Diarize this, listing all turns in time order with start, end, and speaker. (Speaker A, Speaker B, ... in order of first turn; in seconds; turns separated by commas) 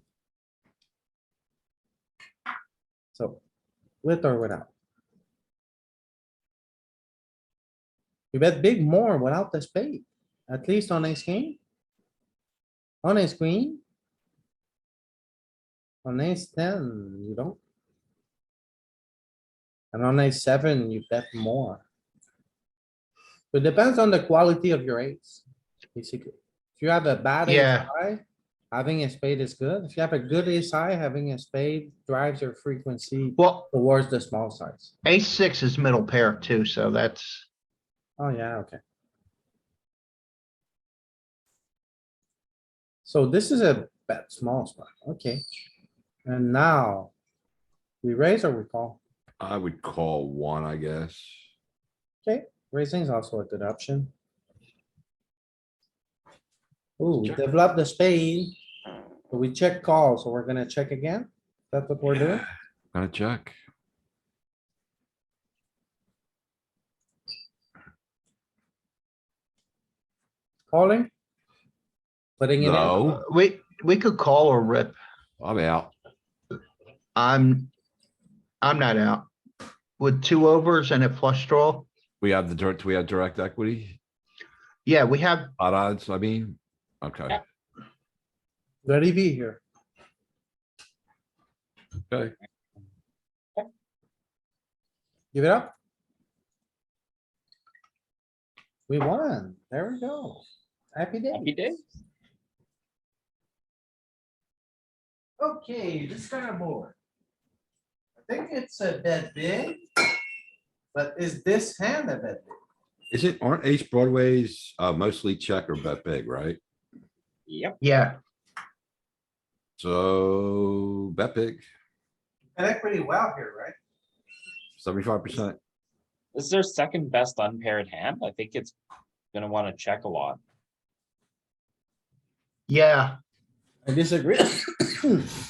Speaker A: 3.1-3.4, Speaker A: 4.0-4.7, Speaker A: 8.3-11.6, Speaker A: 13.0-13.8, Speaker A: 16.0-17.6, Speaker A: 19.9-21.9, Speaker A: 23.5-25.4, Speaker A: 25.9-34.9, Speaker B: 27.4-27.9, Speaker B: 33.4-33.7, Speaker B: 35.0-37.5, Speaker A: 38.2-38.8, Speaker A: 43.0-45.4, Speaker A: 46.2-47.1, Speaker A: 48.0-49.0, Speaker C: 49.4-51.4, Speaker A: 52.2-54.1, Speaker A: 57.0-58.5, Speaker A: 59.3-62.5, Speaker C: 62.9-63.5, Speaker A: 70.7-71.1, Speaker A: 72.4-73.0, Speaker C: 72.6-73.2, Speaker B: 73.0-75.0, Speaker C: 75.4-75.9, Speaker B: 77.2-77.7, Speaker B: 78.6-79.3, Speaker B: 80.0-81.9, Speaker C: 82.2-84.0, Speaker B: 84.9-85.5, Speaker C: 85.6-87.4, Speaker A: 88.8-89.6, Speaker C: 92.1-92.3, Speaker A: 95.3-95.7, Speaker A: 98.9-100.4, Speaker A: 101.0-101.5, Speaker D: 101.3-101.8, Speaker A: 105.4-106.9, Speaker A: 108.2-109.8, Speaker A: 110.9-112.6, Speaker C: 113.1-116.6, Speaker D: 117.5-117.8, Speaker B: 117.8-118.2, Speaker C: 119.8-121.6, Speaker A: 122.6-123.8, Speaker C: 124.8-125.6, Speaker D: 126.3-128.7, Speaker D: 129.3-130.4, Speaker B: 132.7-133.2, Speaker A: 133.8-135.3